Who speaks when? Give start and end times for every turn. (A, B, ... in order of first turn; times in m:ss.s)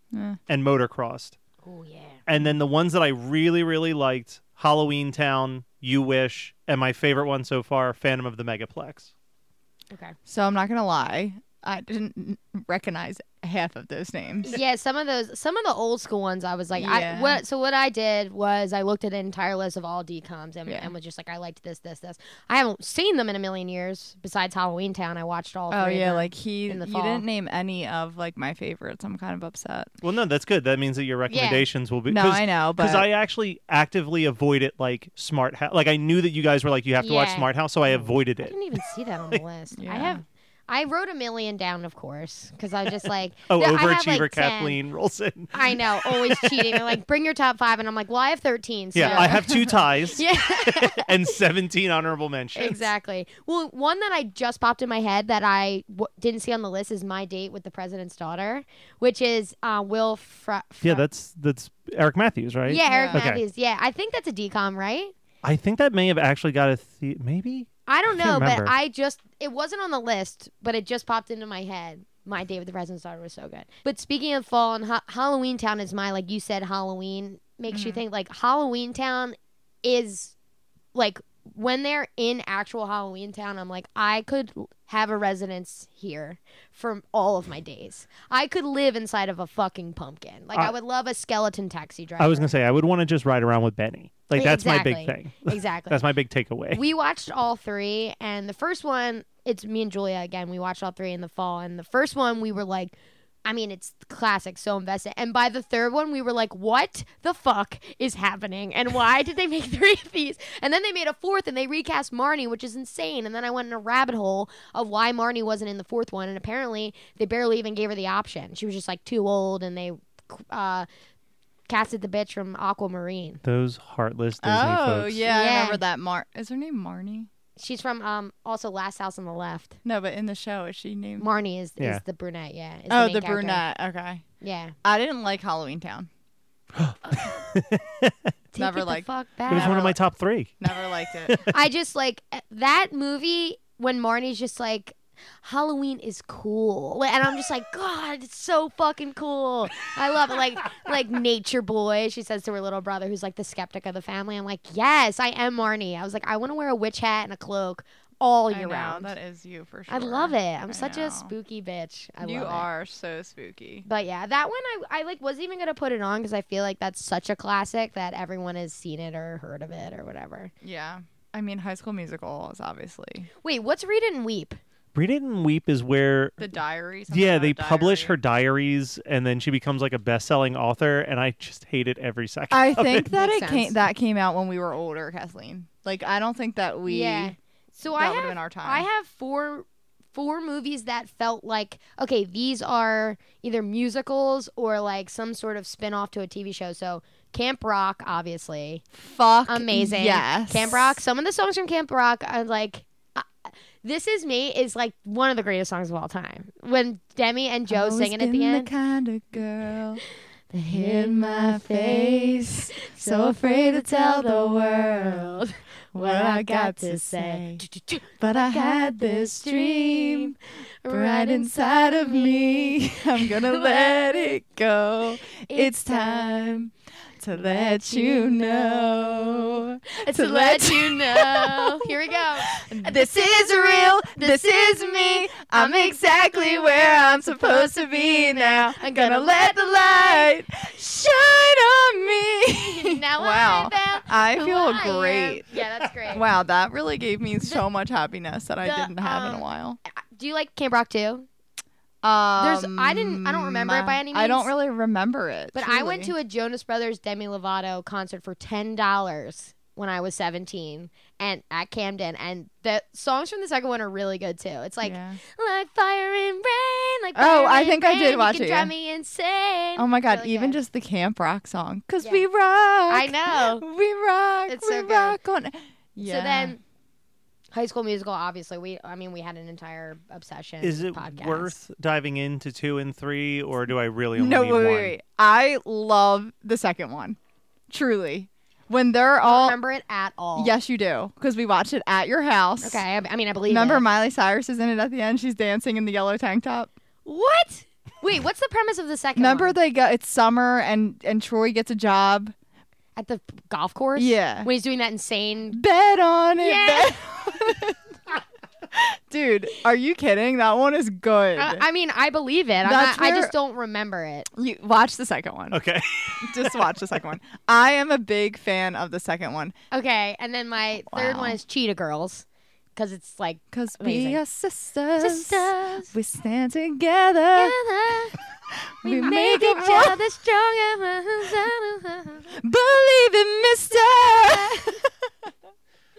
0:00.1-0:00.4 A
0:00.5-0:01.4 B
0:01.6-0:02.2 C
0:02.3-0:09.1 B
0:10.3-0:14.6 A
0:14.4-0:27.2 C
0:16.7-0:17.4 A
0:20.7-0:20.9 A
0:25.7-0:29.9 A
0:30.0-0:39.4 B
0:31.3-0:31.6 C
0:32.1-0:33.1 A
0:37.0-0:37.5 C
0:38.4-0:44.8 C
0:39.8-0:40.2 A
0:43.5-0:46.9 B
0:45.5-0:51.3 C
0:48.9-0:52.9 B
0:49.0-0:49.5 A
0:52.5-1:01.0 C
1:00.8-1:03.4 B
1:02.6-1:05.1 C
1:02.8-1:03.2 A
1:05.4-1:08.7 B
1:07.9-1:20.3 C
1:17.7-1:18.0 A
1:20.9-1:32.5 C
1:32.2-1:36.8 B
1:34.3-1:36.0 C
1:36.7-2:00.9 C
2:01.7-2:03.4 C
2:03.4-2:05.2 B
2:04.4-2:07.3 A
2:05.2-2:05.8 C
2:07.6-2:09.8 C
2:09.8-2:11.3 A
2:11.2-2:13.6 C
2:12.9-2:14.2 A
2:14.4-2:14.7 C
2:14.8-2:16.1 A
2:16.7-2:18.1 B
2:17.0-2:17.4 C
2:18.5-2:19.9 C
2:18.6-2:20.0 A
2:19.5-2:20.7 B
2:20.6-2:21.4 A
2:21.2-2:21.5 B
2:21.4-2:39.1 C
2:38.5-2:41.3 A
2:39.9-2:42.7 C
2:42.2-2:43.8 A
2:43.8-2:50.5 C
2:50.6-2:53.3 A
2:53.4-2:54.6 C
2:54.9-2:56.4 B
2:56.4-2:58.1 A
2:57.1-3:03.1 B
3:02.5-3:07.3 A
3:03.1-3:03.8 C
3:06.8-3:18.8 C
3:08.0-3:08.8 A
3:18.9-3:21.0 A
3:19.5-3:28.7 C
3:27.7-3:30.0 A
3:30.5-3:44.4 C
3:30.7-3:35.4 A
3:35.9-3:37.6 A
3:38.2-3:40.3 A
3:40.9-4:09.8 A
3:45.4-3:46.3 C
3:49.9-3:57.8 C
3:58.7-4:00.3 C
4:02.5-4:06.2 C
4:08.6-4:11.3 C
4:12.0-4:16.1 A
4:12.4-4:14.5 C
4:15.5-4:30.6 C
4:24.8-4:25.2 A
4:27.2-4:28.7 A
4:29.8-4:36.6 A
4:32.9-4:33.6 C
4:34.5-4:35.2 C
4:36.0-4:36.6 C
4:37.5-4:41.6 C
4:40.6-4:45.0 B
4:44.2-4:47.2 A
4:47.7-4:49.6 A
4:49.2-4:50.5 C
4:50.4-4:52.8 A
4:52.6-4:53.8 C
4:53.5-4:56.7 A
4:57.0-4:59.6 C
4:59.2-5:02.3 A
5:03.0-5:05.6 C
5:04.0-5:04.5 A
5:05.5-5:07.8 A
5:06.4-5:07.4 C
5:08.7-5:11.6 A
5:11.4-5:14.3 C
5:12.6-5:13.3 A
5:14.3-5:15.6 A
5:15.5-5:16.7 B
5:16.2-5:19.5 A
5:19.7-5:24.2 C
5:20.9-5:21.4 A
5:23.5-5:27.6 A
5:25.0-5:25.9 C
5:27.3-5:28.2 C
5:28.6-5:30.0 A
5:28.8-5:32.3 C
5:32.3-5:35.3 A